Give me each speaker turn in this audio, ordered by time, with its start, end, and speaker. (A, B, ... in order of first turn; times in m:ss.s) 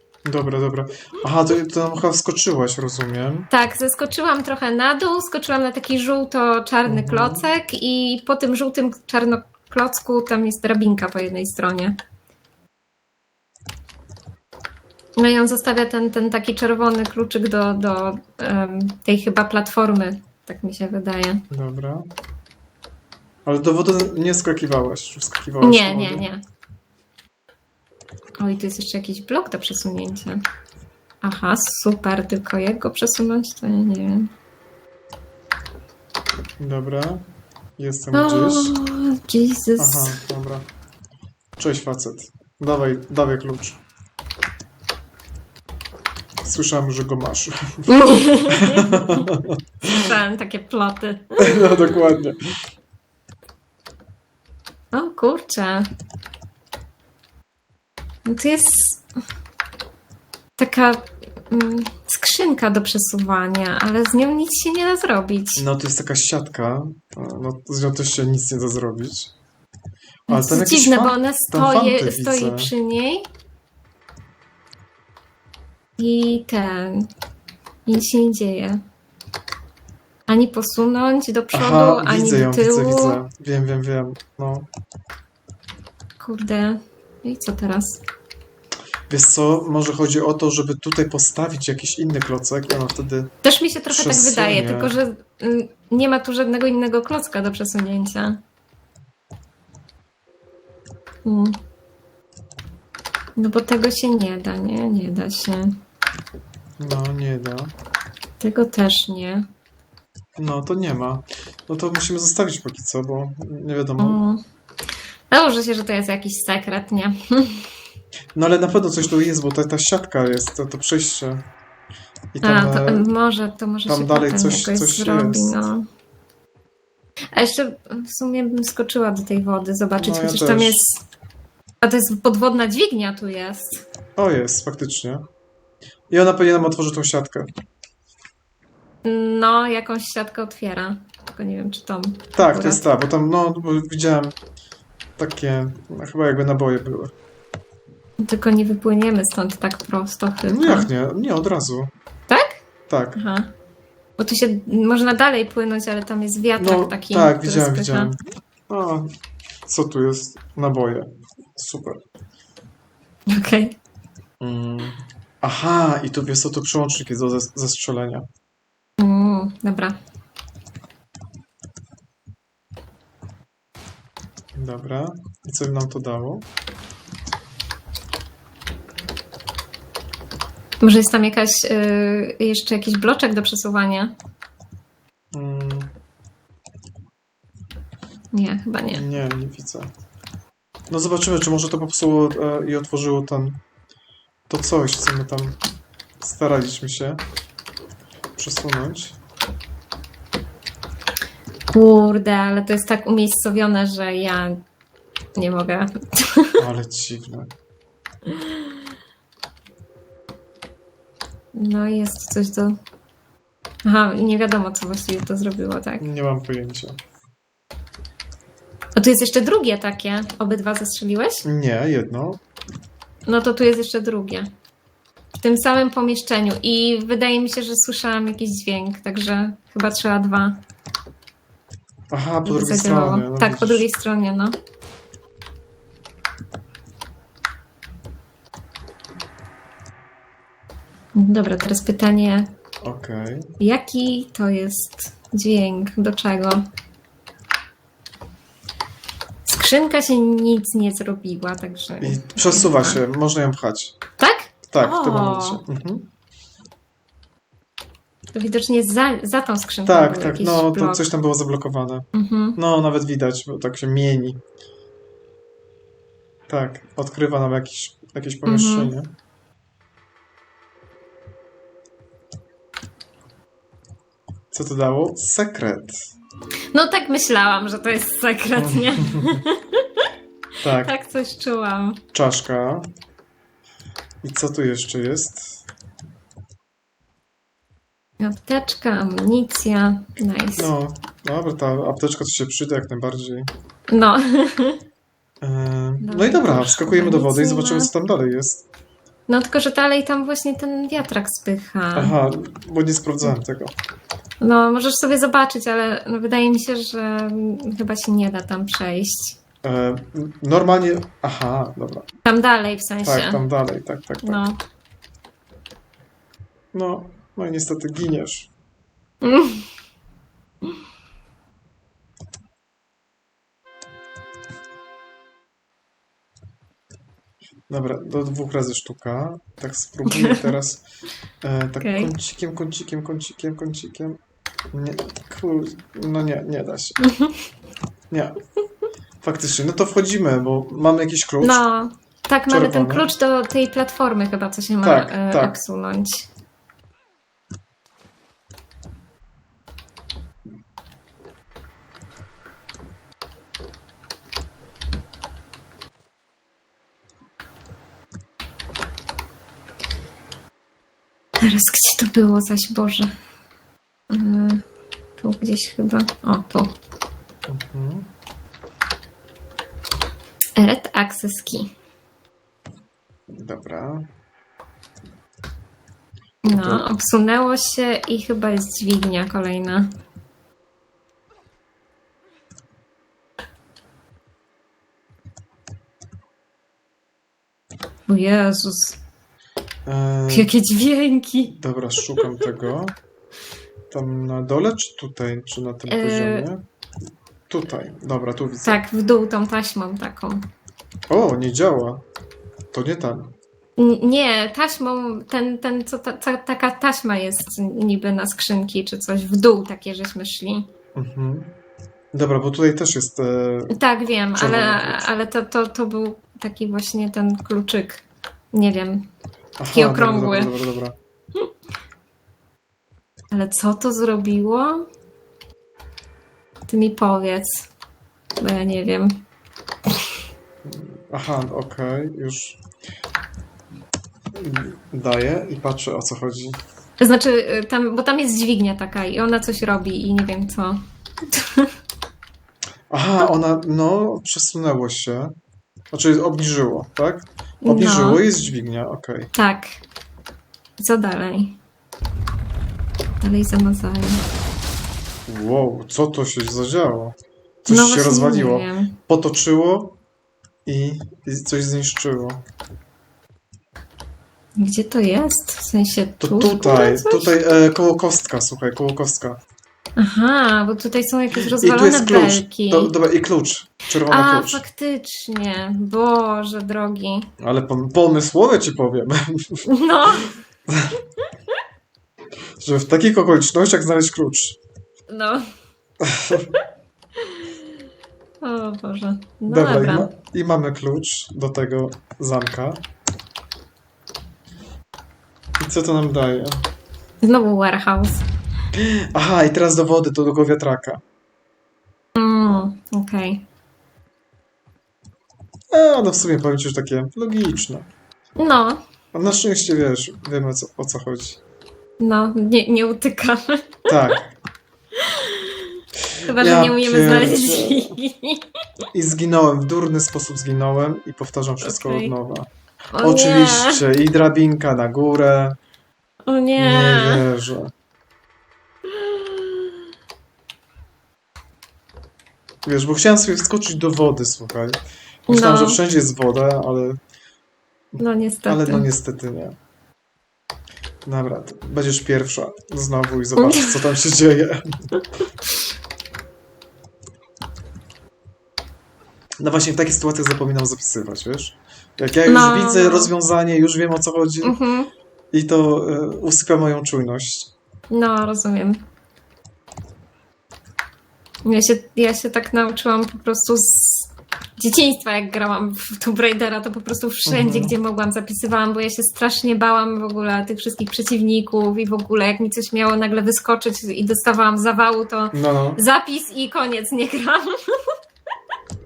0:00.2-0:03.5 A
0:03.5-0:12.0 B
0:06.8-0:07.4 A
0:15.2-0:21.4 B
0:21.5-0:22.1 A
0:23.4-0:26.2 A
0:25.6-0:26.4 B
0:28.4-0:30.4 B
0:31.2-0:34.3 B
0:36.6-0:37.2 A
0:37.8-0:38.7 A
0:38.1-0:40.2 B
0:39.8-0:40.7 A
0:41.6-0:43.8 A
0:46.4-0:47.9 A
0:47.9-0:49.3 B
0:48.5-0:50.2 A
0:49.9-0:52.0 B
0:51.4-0:52.4 A
0:54.9-0:55.9 B
0:58.2-0:59.0 B
1:00.6-1:05.6 B
1:05.6-1:09.3 A
1:10.3-1:12.7 A
1:10.3-1:13.3 B
1:16.0-1:17.1 B
1:17.8-1:18.8 B
1:20.3-1:23.2 B
1:21.5-1:24.7 A
1:26.2-1:28.0 B
1:29.1-1:33.3 A
1:33.4-1:38.4 B
1:33.9-1:35.0 A
1:41.2-1:41.6 B
1:43.4-1:45.8 B
1:46.8-1:47.7 A
1:48.4-1:49.5 B
1:50.4-1:54.2 A
1:54.0-1:54.4 B
1:55.3-1:57.7 B
1:58.3-2:01.4 A
2:02.3-2:03.1 A
2:02.4-2:05.8 B
2:03.8-2:05.6 A
2:07.3-2:11.0 B
2:10.0-2:10.9 A
2:11.8-2:13.8 B
2:14.2-2:15.3 A
2:16.1-2:17.5 A
2:19.0-2:22.8 B
2:22.4-2:24.4 A
2:25.2-2:27.1 A
2:28.2-2:30.9 B
2:30.5-2:31.9 A
2:32.3-2:32.6 B
2:32.9-2:33.2 A
2:33.2-2:33.5 B
2:34.2-2:38.1 B
2:36.6-2:38.2 A
2:38.7-2:39.1 A
2:39.6-2:42.0 A
2:43.3-2:43.8 B
2:44.4-2:48.3 A
2:49.0-2:50.0 B
2:54.5-2:56.4 A
3:00.8-3:04.1 B
3:05.3-3:05.9 A
3:08.3-3:09.0 B
3:08.9-3:09.9 A
3:10.9-3:13.6 A
3:14.5-3:15.6 A
3:16.2-3:17.2 A
3:18.4-3:19.2 A
3:21.7-3:24.6 B
3:25.4-3:26.6 B
3:26.6-3:27.5 A
3:28.3-3:28.6 B
3:31.5-3:32.8 B
3:33.8-3:36.0 B
3:36.0-3:37.0 A
3:39.0-3:41.4 B
3:41.4-3:42.4 A
3:43.2-3:44.5 B
3:45.4-3:50.6 B
3:52.1-3:53.8 A
3:52.4-3:54.6 B
4:01.1-4:02.5 B
4:02.8-4:03.5 A
4:03.6-4:06.7 B
4:09.4-4:13.0 B
4:12.0-4:14.0 A
4:14.2-4:15.6 B
4:14.7-4:16.1 A
4:18.3-4:21.1 B
4:19.8-4:24.4 A
4:22.1-4:22.6 B
4:26.5-4:29.1 A
4:28.4-4:28.9 B
4:34.5-4:36.0 A
4:36.7-4:40.1 B
4:38.6-4:39.4 A
4:40.6-4:40.9 A
4:40.8-4:42.0 B
4:42.1-4:42.9 A
4:44.2-4:45.6 A
4:48.2-4:50.7 B
4:50.6-4:53.5 A
4:53.9-4:54.8 B
4:55.4-4:58.6 A
4:56.0-4:57.9 B
4:59.3-5:02.1 B
5:01.9-5:03.7 A
5:04.4-5:09.4 B
5:09.6-5:12.1 A
5:12.2-5:13.4 B
5:13.0-5:14.4 A
5:14.2-5:14.6 B
5:16.7-5:18.5 A
5:19.2-5:19.7 B
5:27.7-5:30.8 A
5:30.1-5:30.5 B
5:31.4-5:34.2 A
5:31.8-5:32.1 B
5:34.7-5:37.0 A
5:37.0-5:37.3 B
5:38.1-5:38.4 A
5:39.2-5:41.6 A
5:41.4-5:46.3 B
5:42.5-5:43.1 A
5:44.8-5:45.6 A
6:01.4-6:03.1 B
6:04.1-6:04.6 B
6:05.2-6:06.7 B
6:07.5-6:08.1 A
6:10.6-6:11.7 B
6:13.3-6:14.1 A
6:16.4-6:19.9 B
6:16.5-6:16.8 A
6:28.1-6:29.0 B
6:29.8-6:30.5 A
6:30.3-6:31.5 B
6:31.5-6:33.0 A
6:33.9-6:36.6 A
6:35.9-6:36.5 B
6:37.5-6:38.8 A
6:38.6-6:40.5 B
6:41.1-6:42.0 A
6:42.7-6:43.3 A
6:43.8-6:50.7 B
6:50.9-6:51.5 A
6:52.1-6:53.8 A
6:53.7-6:59.1 B
6:54.3-6:55.1 A
6:59.6-7:01.0 A
6:59.7-7:00.5 B
7:03.3-7:04.8 B
7:06.7-7:07.7 B
7:08.4-7:09.2 B
7:10.6-7:12.6 A
7:14.3-7:16.6 A
7:17.0-7:21.7 B
7:22.9-7:25.3 A
7:25.9-7:29.3 A
7:27.6-7:28.2 B
7:29.3-7:29.8 B
7:30.8-7:31.6 B
7:33.2-7:34.2 B
7:35.3-7:40.0 A
7:37.7-7:38.9 B
7:40.6-7:42.4 A
7:44.6-7:47.3 B
7:46.2-7:49.4 A
7:50.0-7:52.9 B
7:51.3-7:54.6 A
7:54.0-7:57.3 B
7:57.4-7:59.6 A
7:59.7-8:00.4 B
8:00.7-8:01.0 A
8:02.6-8:04.6 A
8:05.1-8:05.4 B
8:06.0-8:06.5 A
8:07.2-8:07.5 B
8:08.4-8:10.1 B
8:09.5-8:12.8 A
8:15.6-8:16.7 A
8:17.2-8:18.3 B
8:18.7-8:21.0 A
8:22.1-8:23.4 B
8:25.7-8:27.9 A
8:28.4-8:28.8 B
8:29.1-8:31.4 A
8:32.0-8:33.8 B
8:33.9-8:34.4 A
8:35.0-8:35.7 B
8:36.2-8:38.5 B
8:36.3-8:38.0 A
8:38.9-8:45.6 A
8:41.6-8:42.1 B
8:43.0-8:43.8 B
8:46.3-8:47.2 B
8:46.6-8:47.7 A
8:48.9-8:49.6 B
8:52.6-8:57.0 A
8:55.3-8:55.8 B
8:57.9-8:59.5 A
8:58.0-8:58.9 B
9:01.0-9:04.8 A
9:03.4-9:03.8 B
9:09.4-9:14.6 A
9:12.2-9:13.1 B
9:14.4-9:14.9 B
9:15.3-9:17.5 A
9:17.9-9:18.8 B
9:21.4-9:37.7 B
9:27.2-9:27.8 A
9:35.3-9:35.8 A